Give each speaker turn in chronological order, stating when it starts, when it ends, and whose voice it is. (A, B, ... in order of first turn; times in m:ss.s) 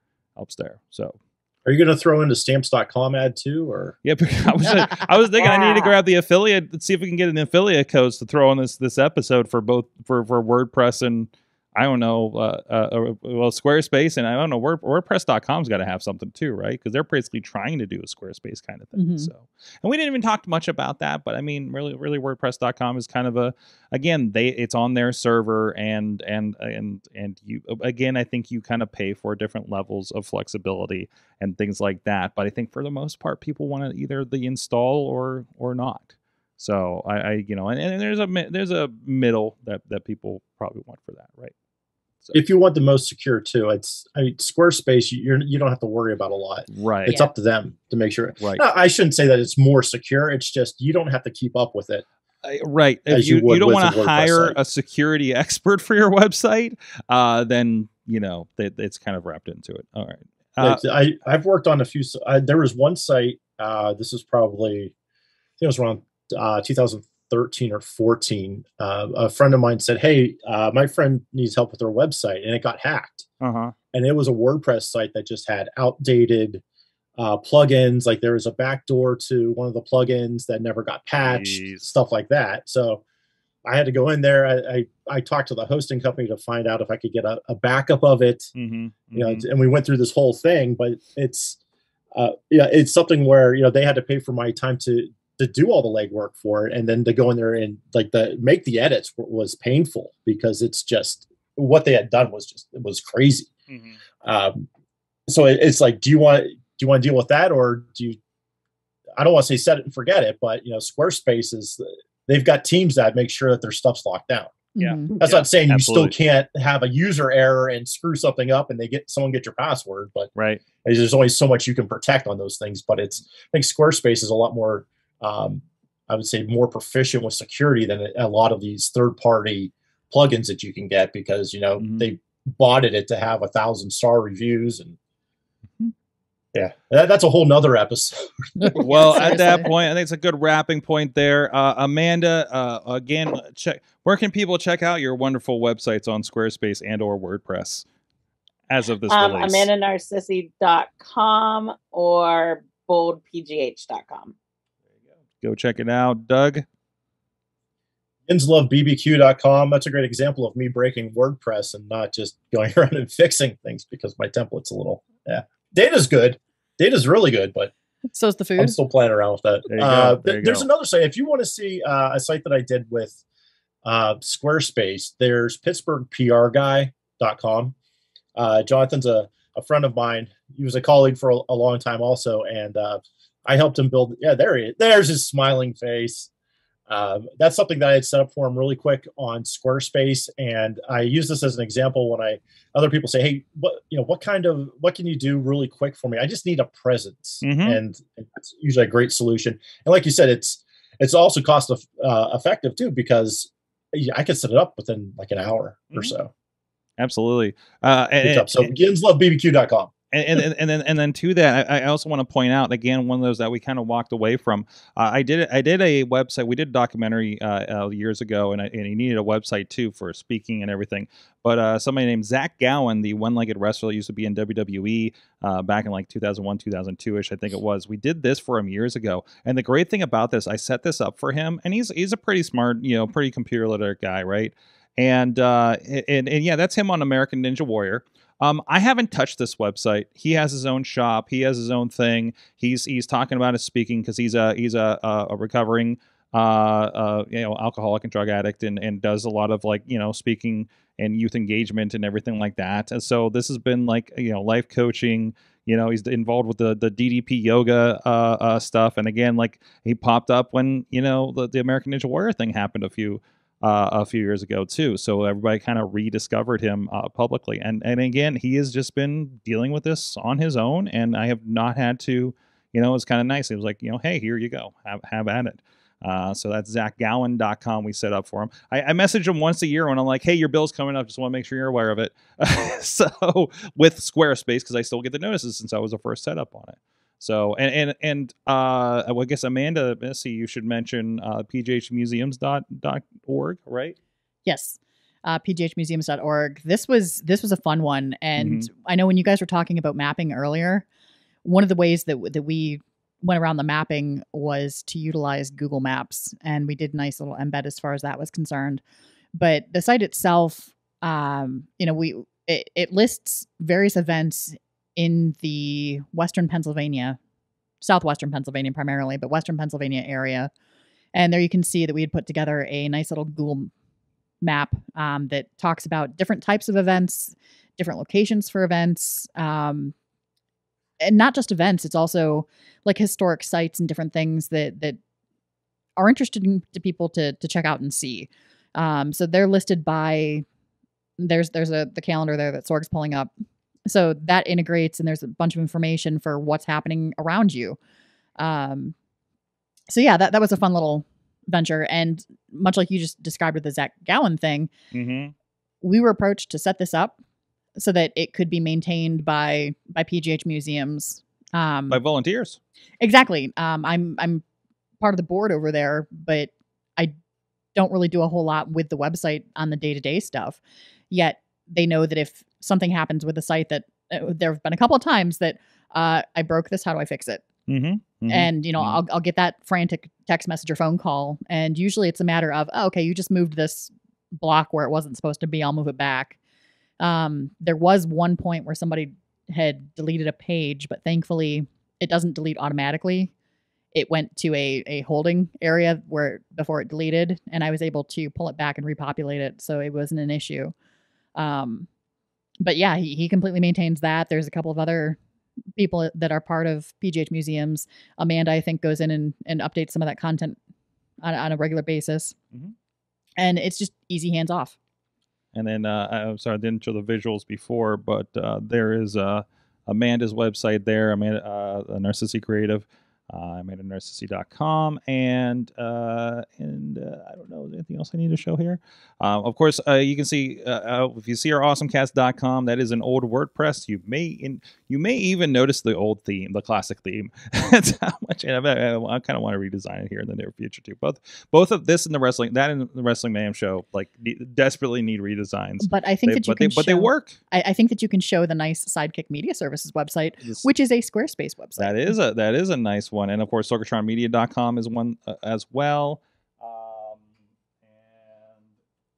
0:00.4-0:01.2 A
0:01.6-0:04.0 B
0:04.0-0:41.5 A
0:04.6-0:05.6 C
0:05.4-0:05.9 D
0:19.0-0:19.3 C
0:42.3-0:52.0 B
0:46.7-0:47.2 A
0:52.4-1:00.8 A
0:53.1-0:54.6 B
1:00.6-1:04.9 B
1:05.6-1:13.3 B
1:13.4-1:13.7 A
1:13.9-1:16.6 B
1:17.2-1:23.0 B
1:21.2-1:21.8 A
1:23.6-1:28.5 B
1:28.6-1:29.4 A
1:29.1-1:31.6 B
1:32.1-1:43.5 B
1:43.7-1:44.0 A
1:44.2-1:44.7 B
1:45.3-1:48.2 B
1:49.2-1:54.6 B
1:54.8-1:55.2 C
1:54.8-1:56.1 A
1:55.2-2:00.3 B
2:00.4-2:00.6 A
2:00.8-2:15.0 B
2:11.8-2:12.1 A
2:16.5-2:19.5 B
2:18.6-2:19.7 C
2:18.8-2:27.8 A
2:28.7-2:29.7 A
2:29.1-2:34.4 D
2:35.4-2:36.6 A
2:38.3-2:47.7 B
2:48.1-2:48.8 C
2:48.6-2:53.2 B
2:49.7-2:50.7 A
2:53.8-2:57.8 B
2:58.4-3:06.3 B
3:06.9-3:26.3 B
3:17.4-3:17.8 A
3:27.0-3:28.7 A
3:28.2-3:29.9 B
3:30.1-4:54.0 A
4:54.5-5:00.8 C
4:58.4-4:58.7 A
5:01.4-5:08.8 C
5:09.4-5:17.2 C
5:17.8-5:20.5 C
5:21.1-5:23.7 C
5:24.4-5:29.9 C
5:31.0-5:35.0 C
5:36.0-5:40.4 C
5:41.2-5:43.3 C
5:43.9-5:47.8 C
5:48.4-5:49.0 C
5:49.9-5:54.7 C
5:54.9-5:55.3 A
5:55.8-5:57.2 C
5:57.8-6:02.0 C
6:01.9-6:02.6 A
6:03.0-6:04.4 C
6:05.0-6:07.1 C
6:07.8-6:17.5 C
6:17.7-6:19.0 A
6:18.3-6:26.4 C
6:27.0-6:33.3 C
6:33.9-6:40.7 C
6:41.4-6:41.9 C
6:42.6-6:45.2 C
6:45.8-6:50.6 C
6:51.2-6:52.4 C
6:53.4-6:54.8 C
6:55.5-7:27.4 A
7:25.8-7:32.1 C
7:31.8-7:37.3 A
7:37.8-7:38.6 A